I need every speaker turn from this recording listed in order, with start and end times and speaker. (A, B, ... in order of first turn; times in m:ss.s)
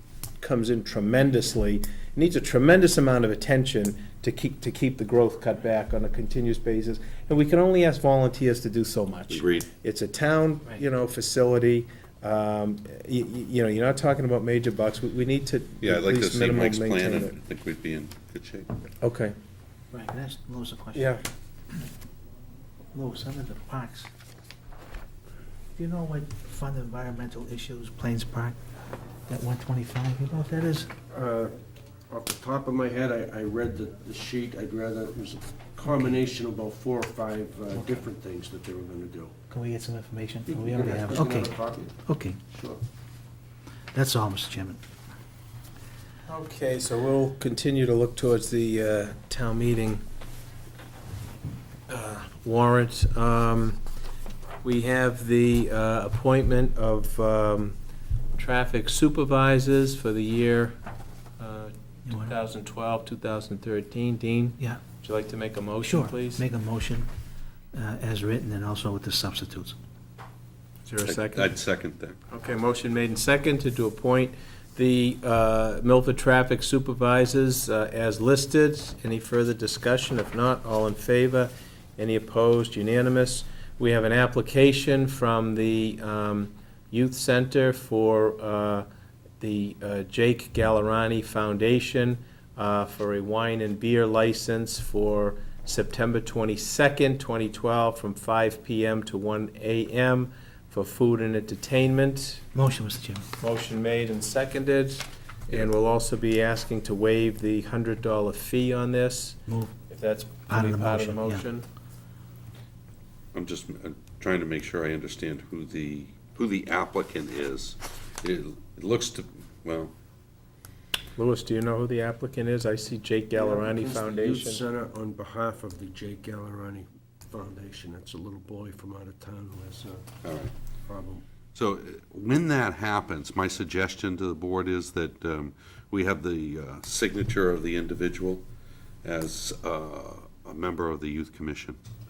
0:00.4-0:17.4 A
0:09.3-0:09.7 B
0:15.8-0:18.7 B
0:19.0-0:19.3 A
0:19.9-0:21.1 C
0:20.9-0:21.2 A
0:22.9-0:24.1 C
0:25.8-0:28.6 C
0:29.3-0:30.9 C
0:31.1-0:31.6 D
0:32.1-0:39.3 D
0:39.5-0:42.4 C
0:40.5-0:42.0 D
0:42.5-0:42.8 D
0:43.9-0:44.8 C
0:46.3-0:50.0 A
0:51.9-0:53.8 A
0:54.6-0:57.8 A
0:58.4-1:00.8 A
1:01.4-1:06.4 A
1:02.0-1:02.3 C
1:05.8-1:07.1 C
1:07.7-1:09.8 C
1:10.9-1:11.5 A
1:11.0-1:12.2 B
1:12.3-1:28.9 A
1:29.4-1:42.4 A
1:42.5-1:43.2 C
1:43.4-1:51.7 A
1:49.5-1:49.7 C
1:50.5-1:51.4 C
1:53.3-1:59.9 B
2:01.2-2:04.6 A
2:03.3-2:10.0 D
2:10.2-2:10.5 B
2:10.8-2:11.2 D
2:11.5-2:18.4 B
2:19.0-2:21.8 B